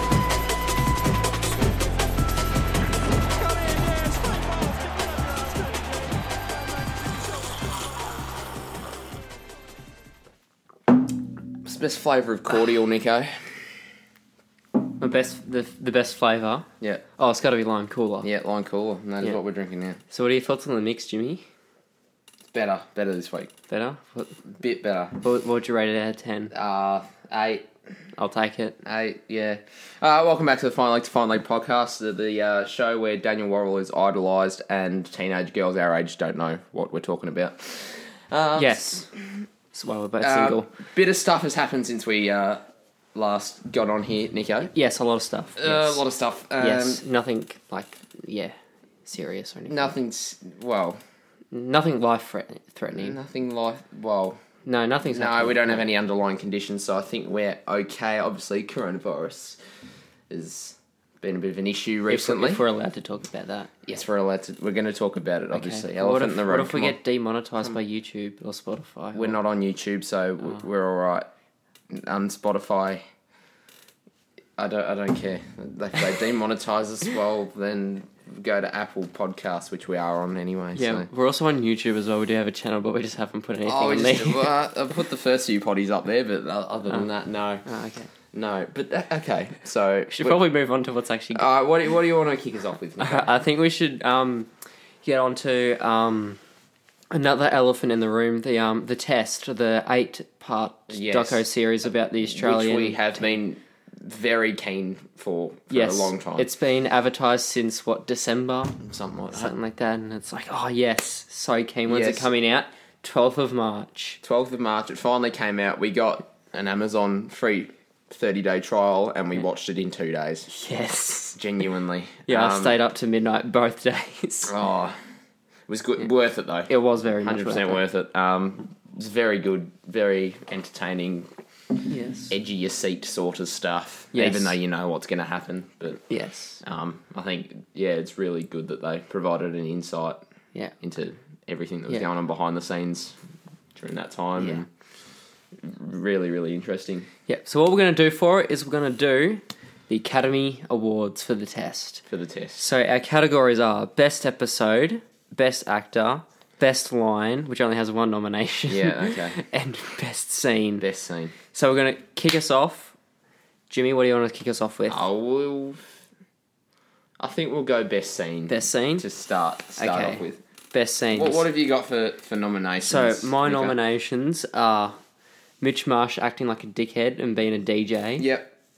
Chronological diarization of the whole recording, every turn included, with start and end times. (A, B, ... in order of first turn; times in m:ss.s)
0:11.6-0:13.7 A
0:15.0-0:18.3 B
0:18.2-0:20.0 A
0:20.1-0:21.4 B
0:22.5-0:23.5 A
0:23.7-0:24.4 B
0:24.6-0:25.2 A
0:25.2-0:26.5 B
0:26.5-0:27.7 A
0:28.2-0:28.8 B
0:28.8-0:39.4 A
0:38.6-0:39.1 B
0:39.7-0:40.7 B
0:40.2-0:42.6 A
0:43.2-0:44.7 A
0:44.7-0:46.0 B
0:45.6-0:47.0 A
0:46.6-0:49.9 B
0:49.7-0:51.0 A
0:51.5-0:53.2 B
0:52.9-0:54.4 A
0:54.6-0:55.8 B
0:55.1-0:59.6 A
1:00.3-1:02.6 A
1:02.1-1:03.7 B
1:03.8-1:07.0 A
1:05.5-1:09.4 B
1:09.2-1:11.3 A
1:11.9-1:13.0 A
1:14.6-1:21.1 A
1:20.8-1:24.5 B
1:23.6-1:27.7 A
1:27.6-1:28.1 B
1:28.3-1:30.4 A
1:30.1-1:31.5 B
1:31.3-1:33.3 A
1:33.0-1:34.5 B
1:35.0-1:36.4 B
1:37.1-1:43.2 B
1:40.9-1:41.4 A
1:42.3-1:46.5 A
1:45.7-1:48.8 B
1:48.8-1:49.6 A
1:49.3-1:54.2 B
1:51.9-1:52.3 A
1:54.2-2:00.5 A
2:00.5-2:01.4 B
2:01.4-2:02.8 A
2:02.3-2:04.6 B
2:04.5-2:05.0 A
2:05.7-2:11.3 A
2:06.7-2:07.8 B
2:11.9-2:12.3 B
2:12.3-2:16.1 A
2:14.1-2:14.6 B
2:16.1-2:16.6 B
2:16.6-2:20.2 A
2:20.8-2:23.2 A
2:23.8-2:24.7 A
2:24.4-2:24.6 B
2:25.6-2:27.1 A
2:27.3-2:32.0 B
2:32.1-2:32.6 A
2:32.6-2:40.8 B
2:38.7-2:39.4 A
2:40.8-2:41.4 A
2:41.5-2:43.0 B
2:43.7-2:45.0 B
2:44.9-2:46.0 A
2:47.2-2:50.4 A
2:48.5-2:49.0 B
2:49.8-2:51.5 B
2:51.1-2:53.8 A
2:52.8-2:55.0 B
2:55.6-2:58.3 B
2:58.2-2:58.5 A